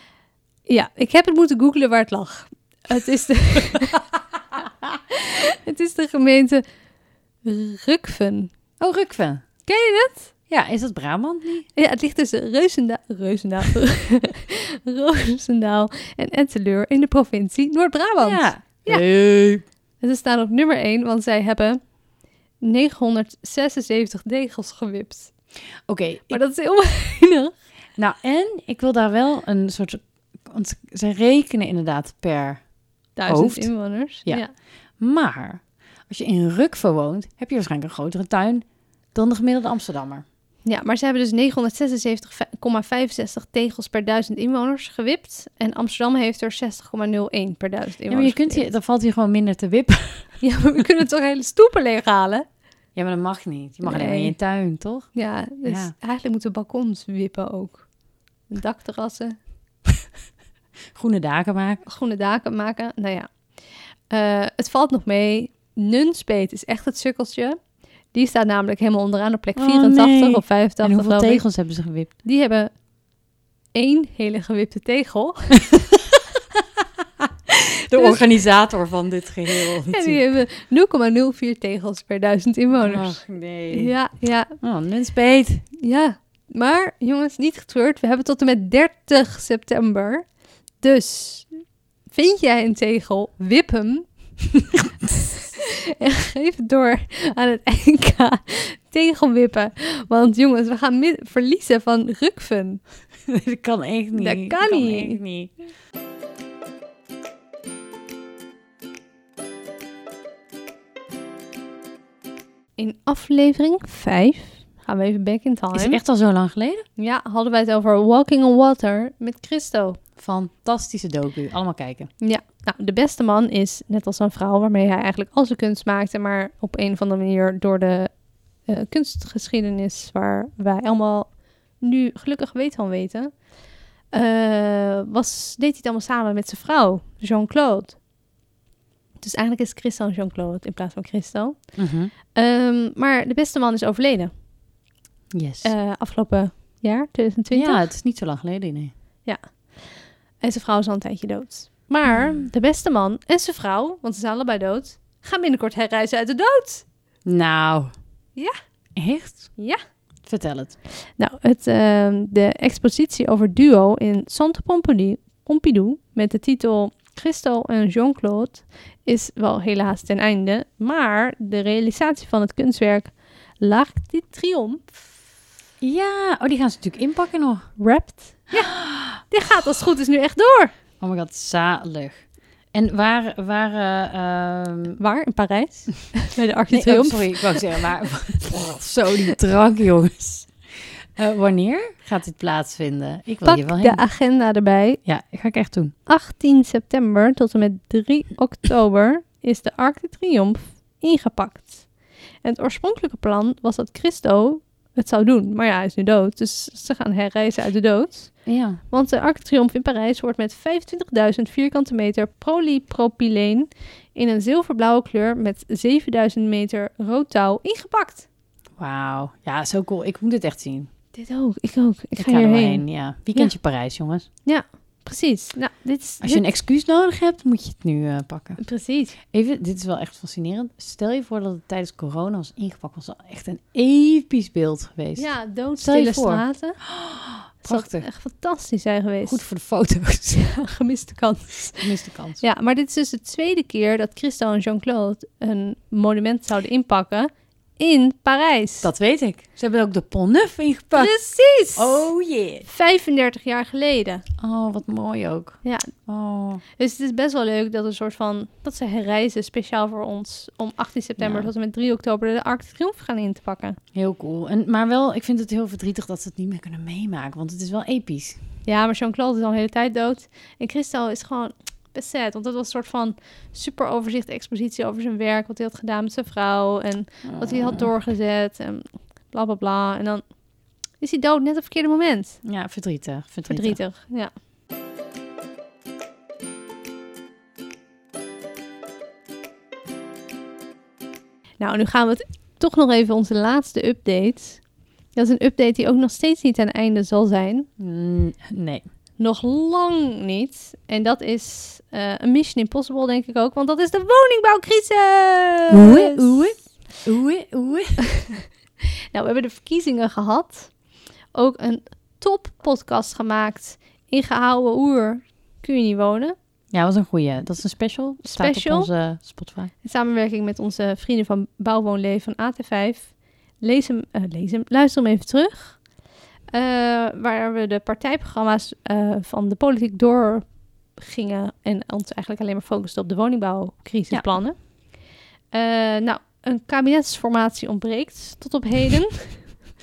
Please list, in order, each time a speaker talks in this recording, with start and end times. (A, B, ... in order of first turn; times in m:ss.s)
0:00.7-0:04.0 A
0:05.1-0:06.6 A
0:07.4-0:08.5 A
0:08.8-0:09.4 B
0:09.7-0:10.3 A
0:10.5-0:11.7 B
0:11.8-0:19.0 A
0:18.2-0:19.6 B
0:20.0-0:21.8 A
0:22.6-0:25.3 A
0:25.8-0:26.4 B
0:26.3-0:27.5 A
0:28.0-0:32.6 B
0:33.2-0:34.5 A
0:33.2-0:34.4 B
0:35.0-0:40.2 B
0:40.6-0:48.6 A
0:48.1-0:50.4 B
0:50.4-0:52.4 A
0:52.9-0:55.1 B
0:53.8-0:54.4 A
0:55.1-0:57.9 A
0:55.6-0:55.9 B
0:58.5-0:59.4 A
1:00.9-1:01.8 B
1:01.8-1:03.3 A
1:04.1-1:07.6 A
1:08.1-1:11.4 A
1:09.6-1:12.1 B
1:12.2-1:12.7 A
1:13.7-1:15.8 A
1:16.0-1:16.2 B
1:17.9-1:20.2 B
1:17.9-1:18.2 A
1:19.8-1:24.6 A
1:22.8-1:23.9 B
1:24.6-1:25.6 B
1:25.8-1:30.2 A
1:30.8-1:31.5 A
1:32.1-1:34.1 A
1:35.3-1:42.8 A
1:43.3-1:45.5 B
1:44.2-1:45.2 A
1:52.8-1:56.0 A
1:55.7-1:56.8 B
1:57.0-2:00.0 A
2:00.2-2:02.1 B
2:02.2-2:08.1 A
2:08.6-2:13.3 A
2:14.1-2:18.0 A
2:19.2-2:21.7 A
2:21.8-2:22.1 B
2:22.3-2:24.3 A
2:25.3-2:25.7 B
2:25.6-2:27.8 A
2:27.5-2:28.9 B
2:29.2-2:29.9 A
2:30.4-2:36.8 A
2:32.1-2:32.3 B
2:37.2-2:37.9 B
2:39.0-2:39.6 B
2:40.2-2:40.8 B
2:41.2-2:54.9 A
2:55.8-2:57.7 B
2:57.8-3:00.7 A
2:58.7-2:59.2 B
3:01.0-3:05.0 B
3:05.0-3:07.9 A
3:06.7-3:14.0 B
3:13.4-3:15.0 A
3:15.0-3:15.9 B
3:16.1-3:21.8 A
3:22.4-3:38.3 A
3:28.4-3:28.8 B
3:38.8-3:40.9 B
3:41.1-3:43.5 A
3:42.2-3:44.2 B
3:44.4-3:46.5 A
3:46.2-3:48.6 B
3:48.6-3:49.2 A
3:49.3-3:58.1 B
3:55.2-3:56.8 A
3:57.6-3:59.4 A
3:59.2-4:00.4 B
4:00.3-4:08.9 A
4:01.8-4:02.4 B
4:08.8-4:11.2 B
4:10.9-4:12.1 A
4:11.7-4:12.6 B
4:12.6-4:14.2 A
4:14.4-4:16.6 B
4:15.6-4:15.9 A
4:16.8-4:23.8 A
4:21.2-4:21.5 B
4:23.9-4:28.4 B
4:28.6-4:40.2 A
4:37.2-4:37.9 B
4:41.0-4:42.4 A
4:42.4-4:43.8 B
4:43.5-4:44.3 A
4:51.6-4:54.6 A
4:55.1-4:57.7 A
4:57.8-4:58.8 B
4:59.2-5:06.4 A
5:05.7-5:08.0 B
5:08.1-5:08.4 A
5:09.1-5:10.7 A
5:11.3-5:16.4 A
5:16.7-5:19.7 B
5:18.2-5:18.9 A
5:19.8-5:25.8 A
5:26.5-5:34.6 A
5:35.5-5:39.6 A